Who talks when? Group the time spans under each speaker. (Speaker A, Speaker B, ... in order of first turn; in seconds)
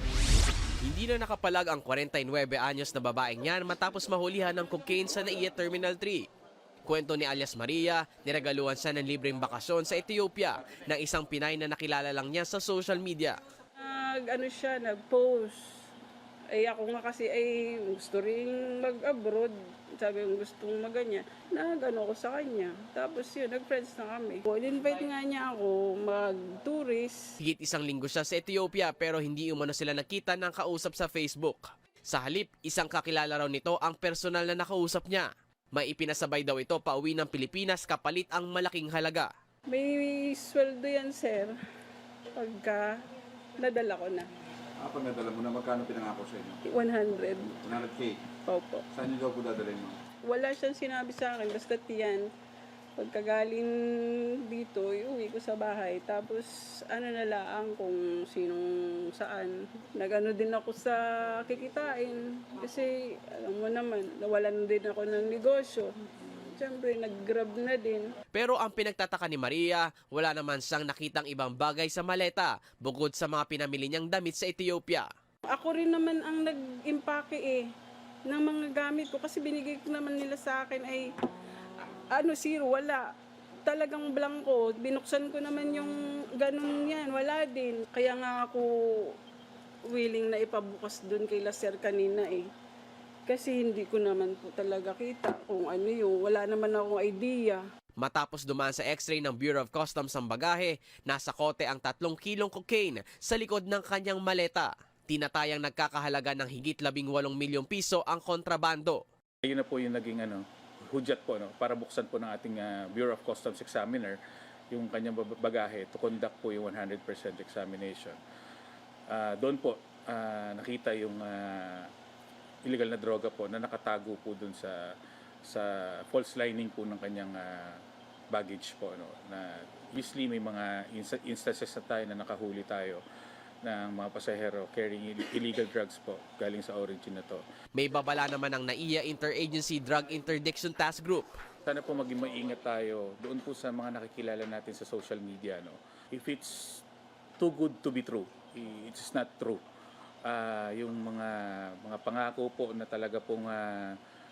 Speaker A: 0.8-6.3, 6.8-13.4, 27.4-39.3, 68.3-75.1, 98.0-109.0, 137.8-141.4
Speaker B: 13.8-15.8, 16.5-27.3, 39.7-41.6, 42.4-42.9, 43.6-44.3, 46.7-47.5, 48.5-48.9, 50.2-52.3, 53.0-68.2, 75.5-77.7, 78.3-81.1, 82.1-83.0, 83.7-89.2, 89.9-92.5, 93.3-97.6
Speaker C: 44.8-46.6, 47.5-48.2, 48.9-50.0
Speaker D: 109.5-114.2, 114.7-118.2, 119.1-121.9, 122.7-124.8, 125.5-127.8, 128.3-133.0, 133.6-137.4, 141.7-146.8, 147.4-149.6, 150.3-153.9